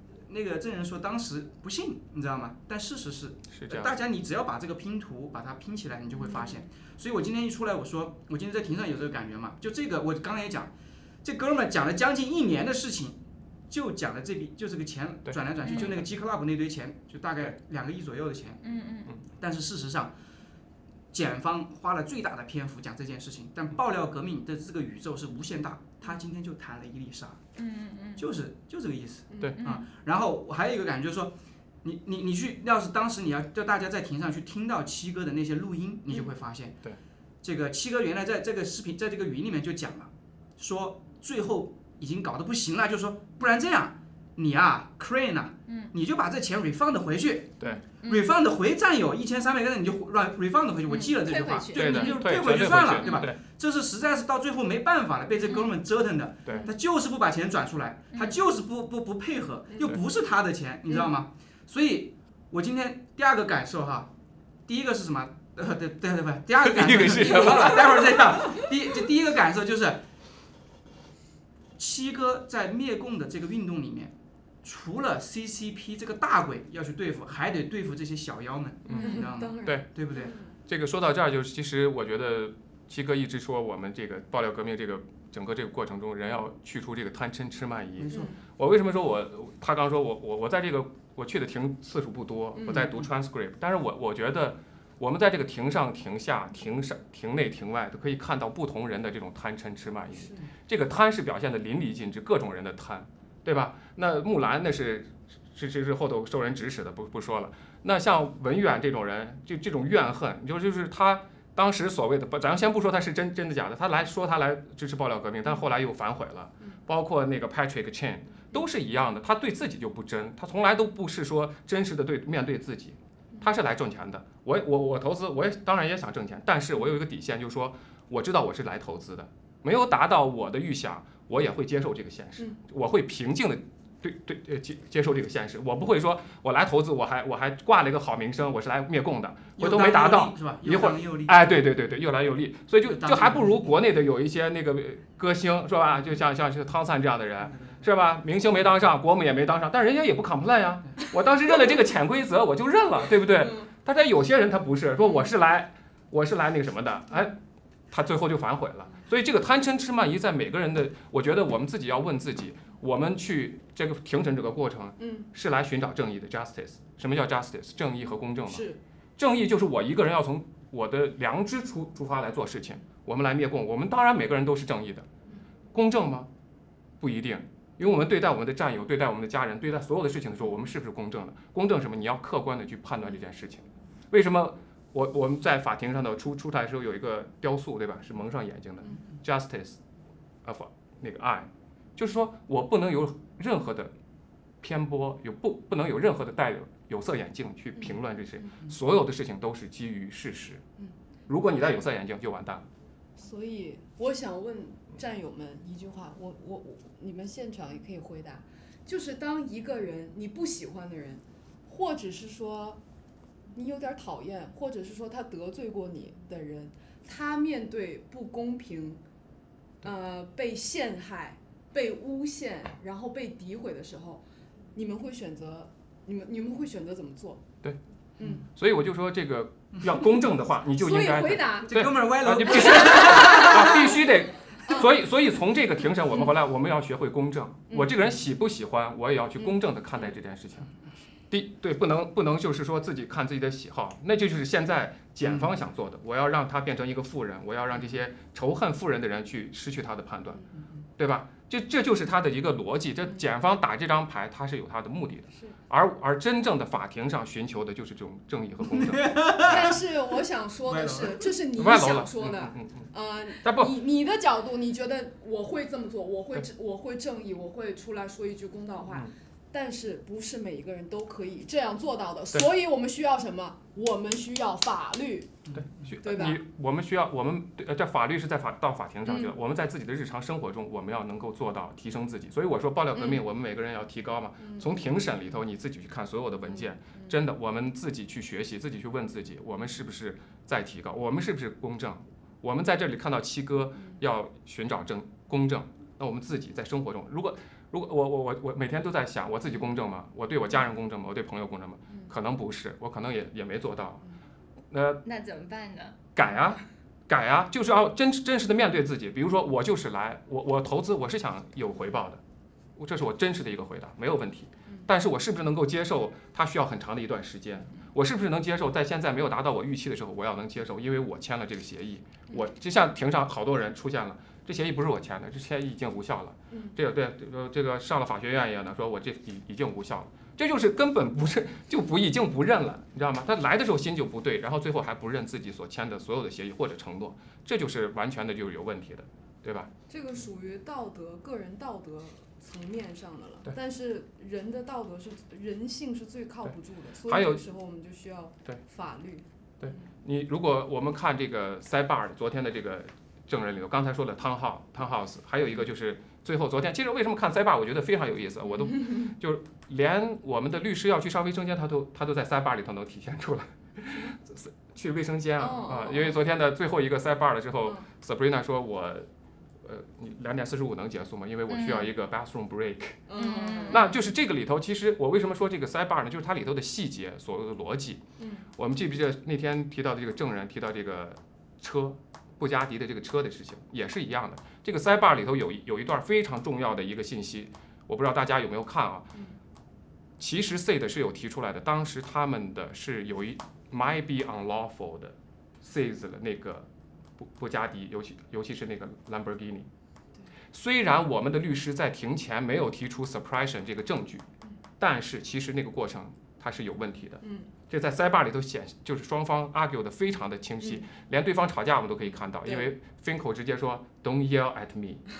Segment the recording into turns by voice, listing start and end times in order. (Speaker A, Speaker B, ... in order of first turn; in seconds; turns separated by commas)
Speaker A: 0.3-10.7, Speaker B: 3.5-3.9, Speaker A: 11.2-13.2, Speaker A: 13.7-18.6, Speaker B: 15.3-16.0, Speaker C: 15.6-15.9, Speaker C: 18.6-19.1, Speaker A: 19.4-20.1, Speaker A: 21.1-27.4, Speaker C: 27.6-28.2, Speaker A: 28.2-36.8, Speaker D: 29.3-29.6, Speaker C: 29.6-29.8, Speaker A: 37.4-64.1, Speaker C: 48.0-48.3, Speaker C: 50.9-52.1, Speaker B: 51.7-53.4, Speaker A: 64.7-70.0, Speaker B: 66.6-68.3, Speaker A: 71.8-80.3, Speaker B: 78.8-79.9, Speaker D: 78.9-80.5, Speaker B: 80.7-157.4, Speaker A: 88.0-88.3, Speaker D: 92.5-93.0, Speaker A: 92.7-93.0, Speaker A: 139.6-141.4, Speaker A: 142.8-143.7, Speaker B: 157.9-175.1, Speaker D: 165.0-165.3, Speaker D: 168.5-168.8, Speaker B: 175.7-176.3, Speaker B: 177.0-189.8, Speaker B: 190.4-193.9, Speaker B: 194.6-200.6, Speaker B: 201.3-202.7, Speaker D: 203.2-212.8, Speaker D: 213.5-219.0, Speaker D: 219.8-224.2, Speaker D: 224.7-227.4, Speaker D: 228.2-228.4, Speaker B: 228.6-240.7, Speaker D: 230.8-231.7, Speaker A: 231.7-233.8, Speaker D: 232.4-233.9, Speaker D: 237.7-237.9, Speaker B: 241.3-250.4, Speaker A: 245.2-245.6, Speaker B: 251.0-259.7, Speaker A: 258.7-259.8, Speaker D: 259.4-275.3, Speaker A: 260.6-261.3, Speaker B: 261.5-262.9, Speaker B: 263.4-263.7, Speaker A: 275.4-275.9, Speaker B: 275.5-304.0, Speaker D: 276.0-276.4, Speaker D: 282.9-283.2, Speaker D: 284.4-284.7, Speaker D: 286.6-287.1, Speaker B: 304.7-305.0, Speaker C: 305.0-305.9, Speaker B: 306.1-312.2, Speaker B: 312.8-339.7, Speaker D: 339.9-349.2, Speaker B: 346.4-347.5, Speaker B: 349.6-369.1, Speaker D: 365.4-366.2, Speaker B: 369.6-373.0, Speaker C: 371.5-371.9, Speaker D: 373.1-373.8, Speaker C: 373.2-373.9, Speaker B: 373.7-378.0, Speaker D: 378.2-378.4, Speaker B: 378.6-389.1, Speaker B: 390.2-399.7, Speaker B: 400.5-404.2, Speaker B: 404.8-415.1, Speaker D: 407.2-407.5